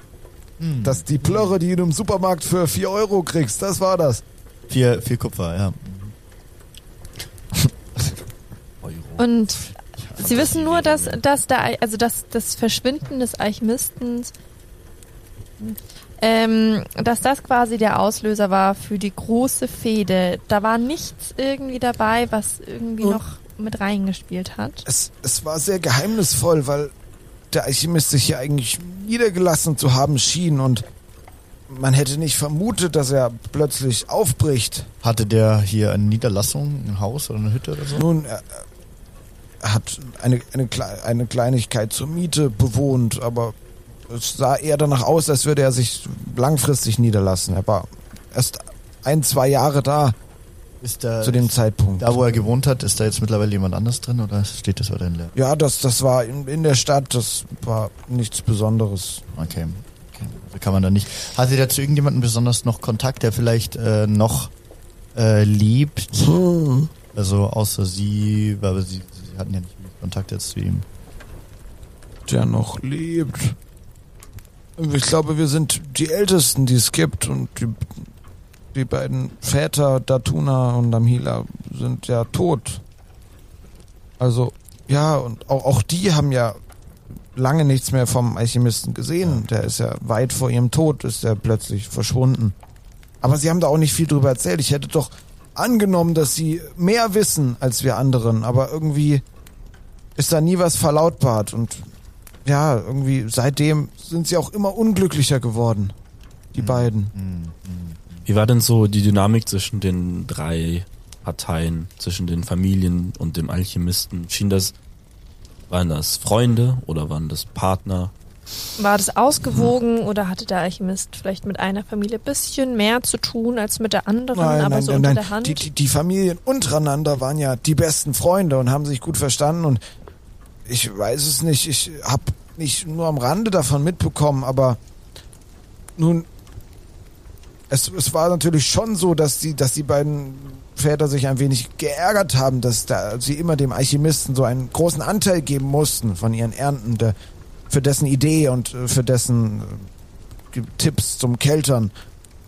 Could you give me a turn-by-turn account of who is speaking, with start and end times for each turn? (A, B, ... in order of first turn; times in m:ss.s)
0:00.6-0:01.6 A
0:00.8-0:04.2 B
0:04.7-0:06.1 A
0:08.8-0:09.3 C
0:09.2-0:14.3 D
0:10.0-0:10.3 A
0:10.2-0:11.2 C
0:15.6-0:24.8 D
0:24.8-0:26.9 B
0:27.5-0:30.8 B
0:31.7-0:34.9 B
0:35.0-0:38.0 A
0:37.9-0:38.6 B
0:39.6-0:43.6 B
0:44.1-0:50.2 B
0:50.8-0:55.3 A
0:51.2-0:52.2 B
0:55.3-0:59.2 B
0:59.3-1:04.5 A
1:05.1-1:06.4 A
1:06.2-1:06.9 B
1:07.1-1:10.8 A
1:12.3-1:13.6 B
1:14.8-1:18.0 B
1:18.7-1:22.8 B
1:24.2-1:26.6 B
1:27.3-1:32.6 B
1:33.2-1:39.2 B
1:40.2-1:41.9 B
1:42.4-1:45.9 B
1:46.5-1:47.1 B
1:46.6-1:48.3 A
1:48.2-1:54.7 C
1:55.7-1:58.1 C
1:58.8-2:05.7 D
2:04.3-2:09.8 B
2:10.6-2:14.8 B
2:16.0-2:16.3 B
2:17.7-2:27.1 B
2:27.7-2:29.9 B
2:30.5-2:31.9 B